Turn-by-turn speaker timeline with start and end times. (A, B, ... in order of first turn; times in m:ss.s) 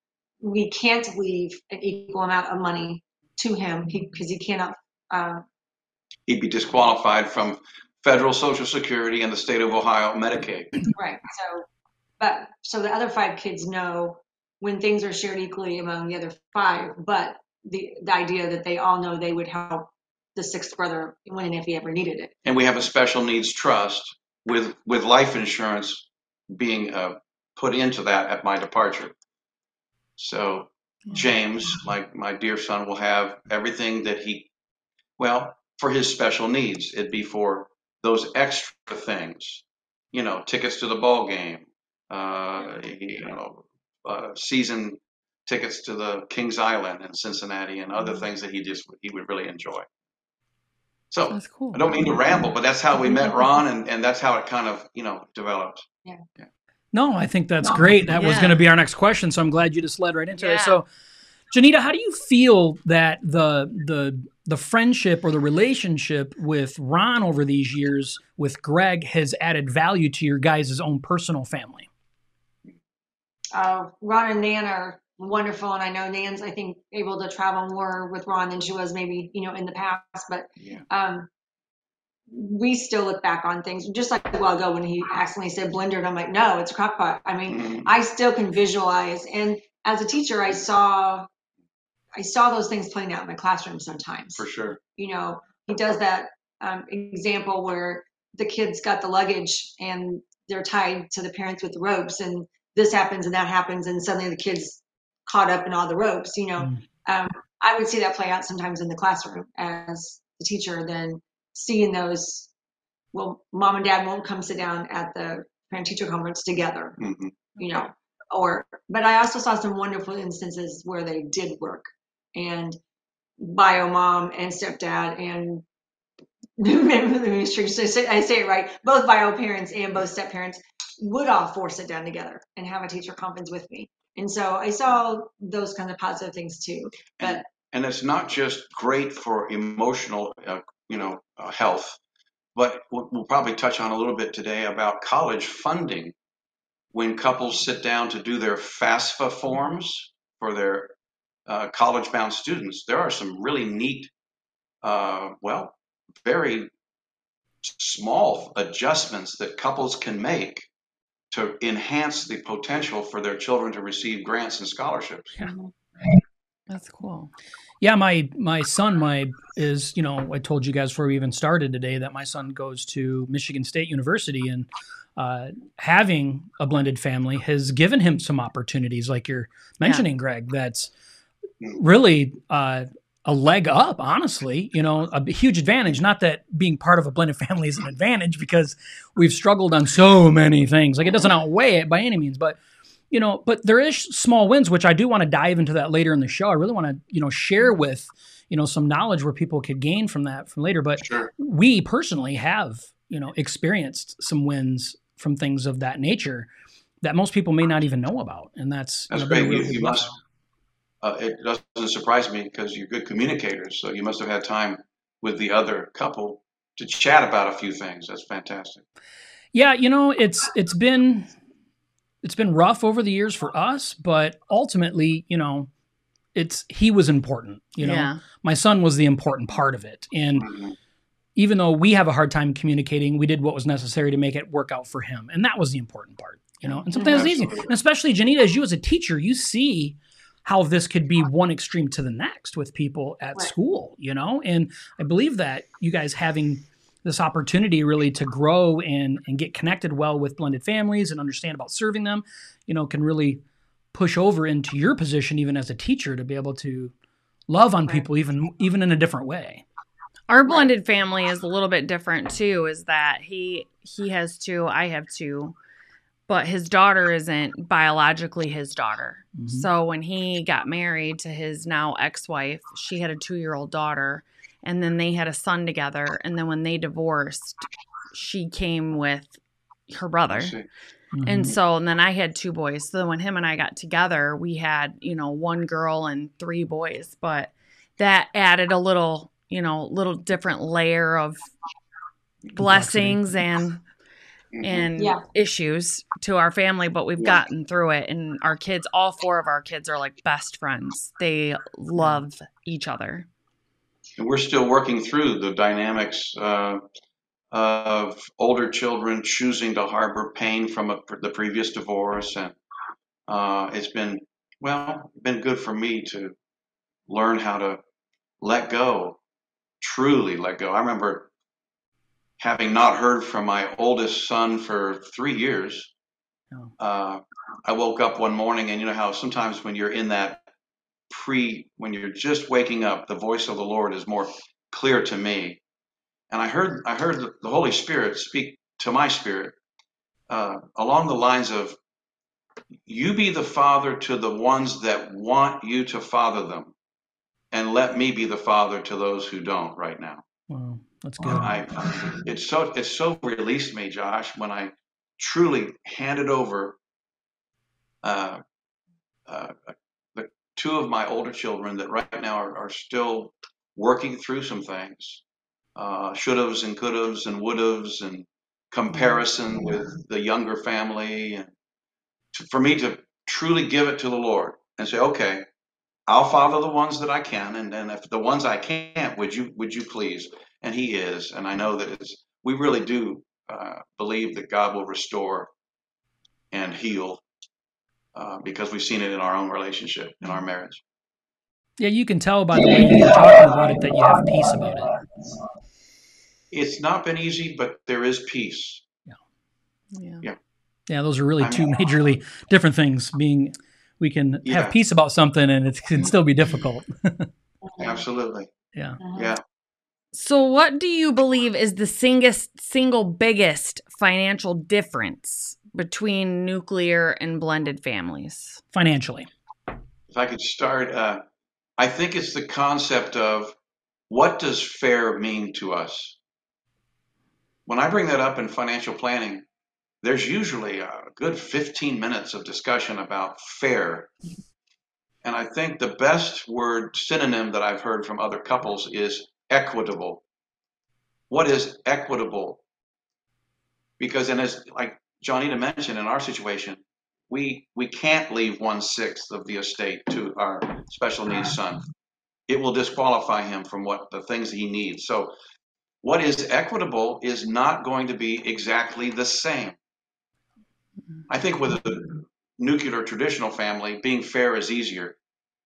0:00.4-0:05.4 A
0:06.3-0:10.7 B
0:10.9-0:11.6 A
0:12.2-0:22.3 A
0:22.4-0:29.1 B
0:30.2-0:34.5 B
0:35.2-0:49.9 B
0:51.1-0:55.8 B
0:51.3-0:51.8 C
0:56.9-1:00.9 D
0:58.2-0:58.6 C
1:00.4-1:00.8 C
1:01.5-1:11.9 D
1:13.5-1:21.3 A
1:22.3-1:31.3 A
1:27.5-1:27.9 B
1:32.2-1:34.4 A
1:34.4-1:34.8 B
1:35.0-1:52.5 A
1:53.1-1:57.0 A
1:57.0-1:57.3 B
1:57.6-2:02.8 A
2:03.4-2:05.6 A
2:06.6-2:17.4 A
2:17.2-2:22.0 B
2:22.5-2:26.1 B
2:26.9-2:30.9 B
2:31.5-2:34.1 B
2:34.8-2:36.7 B
2:37.6-2:40.7 B
2:41.3-2:45.3 B
2:45.4-2:45.7 A
2:46.7-2:47.3 C
2:47.8-3:00.9 D
3:01.7-3:12.6 D
3:13.1-3:26.5 D
3:21.0-3:21.3 B
3:27.0-3:30.1 D
3:29.1-3:30.1 B
3:31.0-3:38.8 B
3:39.5-3:41.3 D
3:42.2-3:45.7 D
3:46.3-3:50.5 D
3:47.8-3:48.2 C
3:50.4-3:50.7 B
3:51.4-4:13.4 D
3:57.0-3:57.7 B
4:13.9-4:16.9 D
4:17.5-4:19.6 D
4:20.3-4:25.5 C
4:26.3-4:39.3 C
4:29.4-4:29.6 D
4:39.9-4:40.6 C
4:40.3-4:40.6 B
4:41.1-4:41.6 D
4:41.2-4:51.4 C
4:52.5-4:53.8 C
4:52.6-4:53.2 D
4:54.5-4:54.9 B
4:54.6-5:03.3 C
4:55.0-4:55.2 A
4:57.2-4:57.4 B
5:04.2-5:06.8 B
5:07.5-5:12.6 B
5:13.3-5:16.3 B
5:17.1-5:17.8 B
5:18.4-5:19.2 B
5:19.8-5:21.3 B
5:22.4-5:25.9 B
5:26.8-5:30.4 B
5:31.1-5:35.6 B
5:36.3-5:39.5 B
5:40.3-5:41.8 B
5:42.8-5:46.7 B
5:47.5-5:50.2 B
5:50.5-5:51.5 D
5:51.2-5:56.8 B
5:58.0-5:58.4 B
5:59.3-6:05.2 B
6:05.8-6:11.5 B
6:12.3-6:15.4 B
6:16.1-6:25.5 B
6:26.5-6:27.2 B
6:28.1-6:30.8 B
6:31.8-6:35.0 D
6:36.5-6:38.8 B
6:39.9-6:40.2 C
6:40.9-6:47.3 D
6:41.4-6:41.6 B
6:44.4-6:44.8 B
6:47.6-6:48.0 A
6:47.8-6:48.5 B
6:48.7-6:49.0 D
6:49.0-6:49.4 A
6:49.1-6:49.4 B
6:50.1-6:58.6 C
6:58.7-6:59.3 D
7:00.1-7:01.2 B
7:01.8-7:03.5 B
7:04.1-7:06.2 B
7:07.7-7:09.4 B
7:10.0-7:14.1 B
7:15.2-7:20.2 B
7:21.3-7:22.6 B
7:24.0-7:31.8 B
7:32.5-7:35.3 B
7:36.0-7:39.8 B
7:41.3-7:45.2 B